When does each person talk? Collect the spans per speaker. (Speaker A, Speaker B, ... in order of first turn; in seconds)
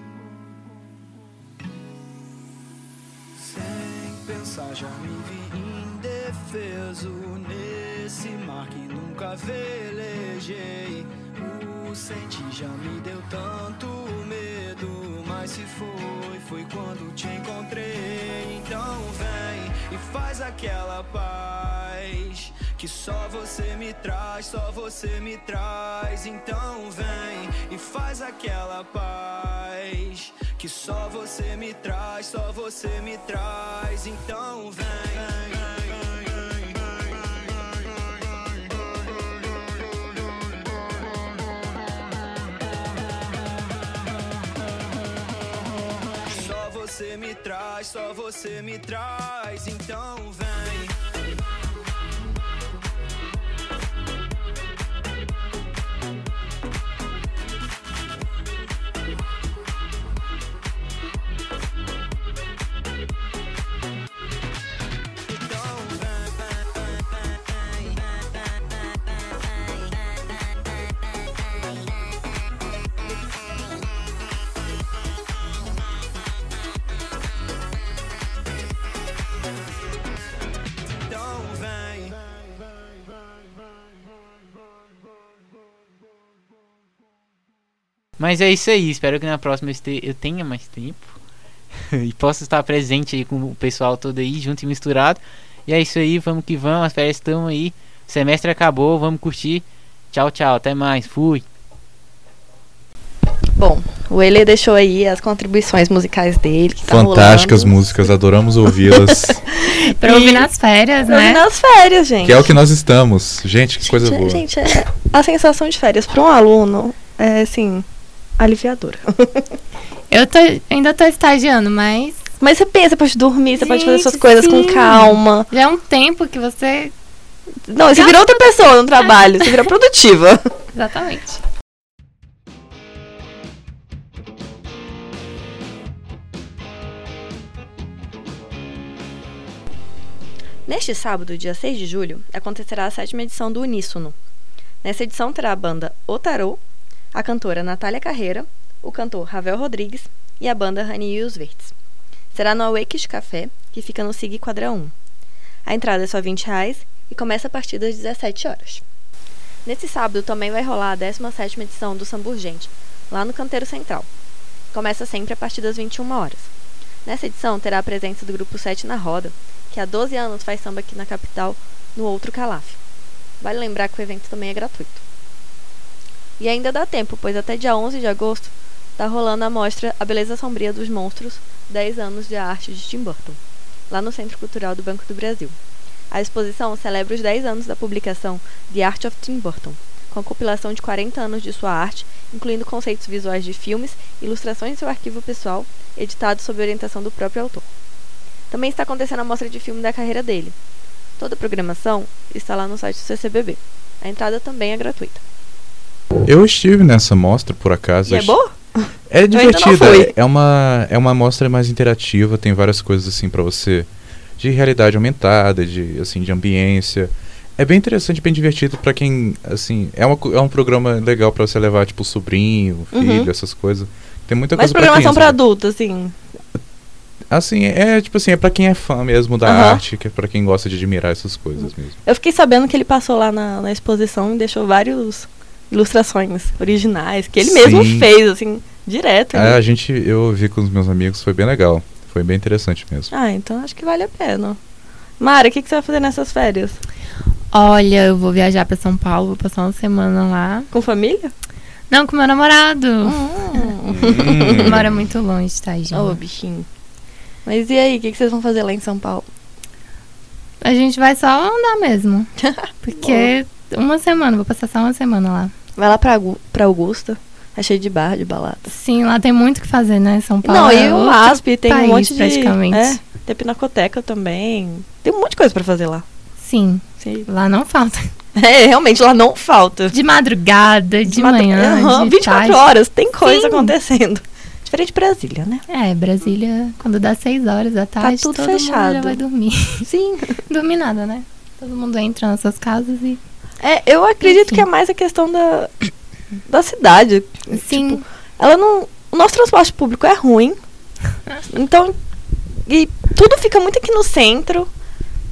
Speaker A: 3.4-37.4, 46.3-51.0, 65.3-68.0, 81.0-82.2
Speaker B: 88.2-91.2, 91.7-101.4
Speaker C: 103.6-107.7, 108.9-110.5, 111.1-112.5, 113.8-117.8, 118.4-119.5, 122.4-125.5, 127.7-130.4, 140.7-144.2, 144.8-146.6, 147.1-151.7, 152.3-154.9, 155.7-158.8, 159.7-164.1, 164.7-166.5, 167.1-172.8, 173.4-175.0, 176.4-183.4, 183.9-185.6, 186.1-197.7, 198.5-200.6, 201.2-205.2, 208.1-210.1, 222.9-223.3, 224.6-226.2, 229.4-229.8, 232.1-239.6, 243.1-244.6, 245.2-246.8, 250.7-251.3, 253.0-254.7, 255.9-256.7, 257.4-259.3, 262.4-263.3, 265.8-268.7, 270.4-276.1, 277.0-277.3, 278.4-279.9, 281.1-285.6, 288.0-289.2, 289.8-290.3, 293.6-295.7, 296.5-300.6, 301.5-302.0, 302.7-304.7
Speaker D: 106.9-109.4, 112.2-114.4, 206.2-208.4, 209.1-225.4, 227.3-232.0, 237.4-238.1, 239.3-243.1, 253.9-255.0
Speaker E: 110.0-111.4, 120.1-122.2, 123.6-126.9, 127.9-128.3, 130.7-131.4, 247.5-250.7, 251.9-253.7, 254.6-256.2, 260.6-262.3, 262.8-265.5, 268.7-273.0, 276.4-278.0, 279.9-282.6, 283.2-283.7, 285.7-289.8, 290.5-293.2, 294.2-294.7, 297.5-298.0